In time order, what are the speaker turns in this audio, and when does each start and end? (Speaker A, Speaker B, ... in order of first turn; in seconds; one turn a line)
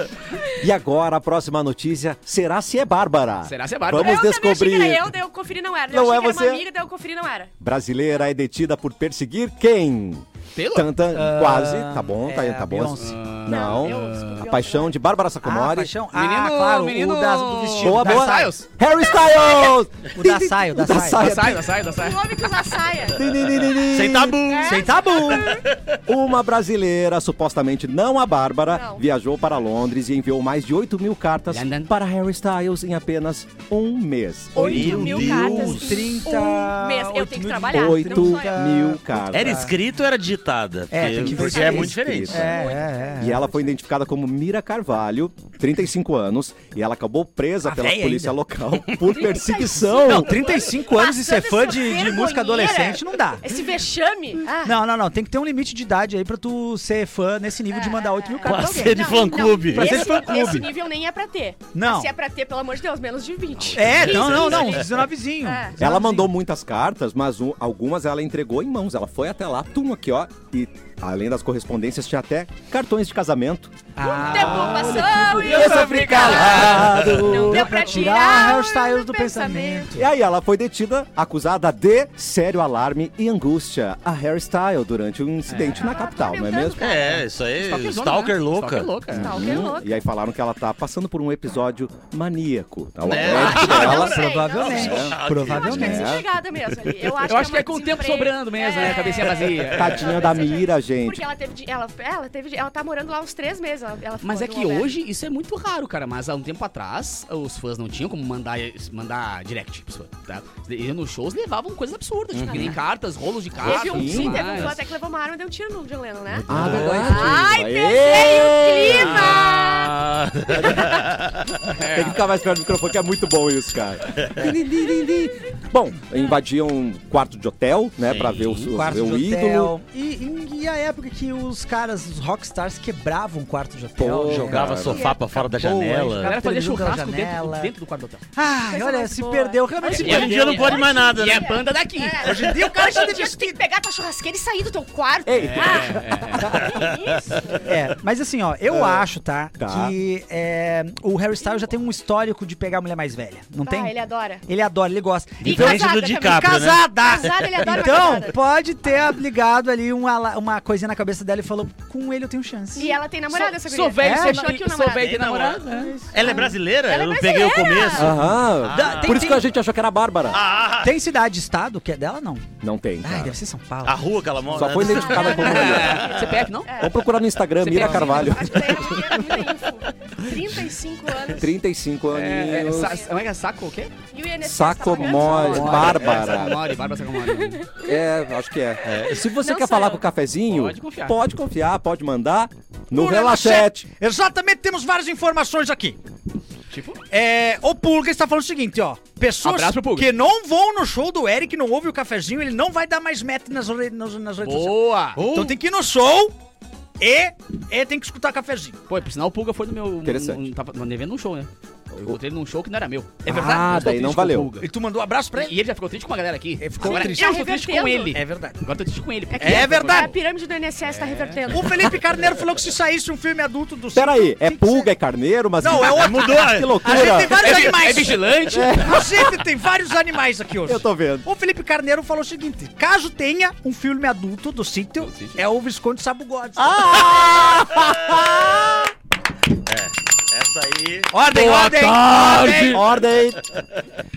Speaker A: 0.5-5.1
Speaker B: 3.4-4.2
Speaker C: 3.9-7.5
Speaker A: 5.9-6.7
Speaker A: 7.6-15.9
Speaker B: 10.5-10.9
Speaker D: 11.1-13.2
Speaker B: 13.0-14.5
Speaker C: 13.4-14.9
Speaker D: 15.4-18.5
Speaker B: 16.1-18.6
Speaker A: 17.8-21.7
Speaker C: 19.1-19.8
Speaker D: 20.1-21.3
Speaker B: 21.1-22.5
Speaker C: 21.9-23.3
Speaker A: 23.1-24.4
Speaker E: 23.7-25.8
Speaker C: 24.4-25.6
Speaker D: 24.6-25.6
Speaker A: 26.1-36.0
Speaker C: 28.7-29.0
Speaker B: 31.5-31.9
Speaker C: 34.5-38.6
Speaker D: 34.5-39.7
Speaker E: 34.6-36.0
Speaker A: 37.7-39.7
Speaker E: 39.3-42.5
Speaker D: 40.9-43.5
Speaker A: 41.1-42.6
Speaker C: 41.5-43.4
Speaker A: 43.2-50.3
Speaker D: 47.6-48.4
Speaker C: 49.1-54.8
Speaker D: 50.0-53.5
Speaker D: 54.6-60.8
Speaker C: 57.7-65.8
Speaker E: 58.4-60.6
Speaker D: 61.7-62.1
Speaker E: 63.6-64.8
Speaker D: 63.7-66.3
Speaker A: 65.8-77.9
Speaker D: 74.0-80.1
Speaker C: 74.1-79.9
Speaker B: 74.2-76.9
Speaker E: 76.7-77.0
Speaker B: 77.7-78.1
Speaker A: 80.0-86.8
Speaker B: 85.5-85.8
Speaker C: 85.7-87.2
Speaker E: 86.8-89.0
Speaker B: 87.6-89.5
Speaker A: 89.1-96.3
Speaker C: 89.1-89.9
Speaker E: 93.0-96.0
Speaker D: 93.2-96.2
Speaker C: 93.3-104.9
Speaker B: 97.2-100.3
Speaker A: 99.7-101.2
Speaker B: 104.2-114.8
Speaker E: 112.3-112.7
Speaker C: 112.5-112.7
Speaker C: 113.6-121.0
Speaker A: 113.6-114.7
Speaker A: 116.4-119.4
Speaker B: 116.5-117.4
Speaker E: 118.8-121.5
Speaker A: 120.6-121.0
Speaker B: 121.7-122.2
Speaker A: 121.9-129.7
Speaker E: 128.1-128.4
Speaker B: 128.3-128.7
Speaker D: 128.7-137.7
Speaker A: 134.0-135.1
Speaker E: 134.2-136.3
Speaker B: 136.2-138.2
Speaker D: 138.3-140.6
Speaker C: 138.7-147.7
Speaker B: 139.9-142.3
Speaker E: 139.9-141.6
Speaker D: 142.2-143.6
Speaker A: 145.2-146.4
Speaker B: 145.5-146.5
Speaker D: 146.4-146.8
Speaker E: 146.7-146.9
Speaker D: 147.6-153.9
Speaker A: 148.7-149.1
Speaker A: 149.6-150.0
Speaker C: 153.6-154.4
Speaker D: 154.5-163.0
Speaker E: 155.4-157.3
Speaker C: 155.4-158.4
Speaker C: 162.7-165.2
Speaker B: 163.3-165.9
Speaker D: 164.0-164.5
Speaker E: 164.9-169.3
Speaker D: 165.7-166.5
Speaker C: 166.2-168.2
Speaker A: 167.9-170.4
Speaker D: 168.1-169.5
Speaker E: 170.3-170.9
Speaker C: 170.3-170.6
Speaker D: 170.8-172.5
Speaker A: 172.6-173.4
Speaker D: 173.0-174.9
Speaker E: 173.8-176.1
Speaker A: 174.5-176.1
Speaker C: 174.9-177.0
Speaker B: 175.2-176.7
Speaker A: 176.8-179.4
Speaker B: 177.6-178.5
Speaker D: 177.8-178.2
Speaker C: 178.1-181.5
Speaker A: 181.3-183.0
Speaker B: 182.1-183.9
Speaker C: 182.6-183.1
Speaker C: 184.1-186.0
Speaker A: 184.4-186.6
Speaker B: 184.9-187.6
Speaker C: 187.2-187.9
Speaker A: 187.8-193.8
Speaker E: 188.8-189.2
Speaker C: 189.3-190.0
Speaker B: 190.5-191.2
Speaker D: 192.9-196.0
Speaker B: 196.7-197.0
Speaker D: 197.1-206.3
Speaker B: 199.4-200.1
Speaker B: 204.4-205.2
Speaker E: 205.2-205.5
Speaker D: 207.0-208.8
Speaker B: 208.9-214.7
Speaker A: 210.0-210.5
Speaker D: 213.2-214.0
Speaker A: 213.3-214.5
Speaker D: 214.6-215.6
Speaker B: 215.3-220.2
Speaker D: 216.6-217.4
Speaker C: 216.8-218.2
Speaker D: 218.1-218.6
Speaker C: 219.3-221.9
Speaker D: 219.4-220.1
Speaker B: 220.9-221.4
Speaker D: 221.5-224.9
Speaker A: 223.9-227.7
Speaker D: 225.6-237.3
Speaker E: 225.8-227.0
Speaker B: 227.3-228.9
Speaker A: 228.5-229.3
Speaker A: 230.6-231.3
Speaker B: 235.0-235.4
Speaker A: 236.6-238.9
Speaker E: 237.7-238.2
Speaker E: 239.7-243.6
Speaker D: 241.1-242.8
Speaker A: 241.3-243.4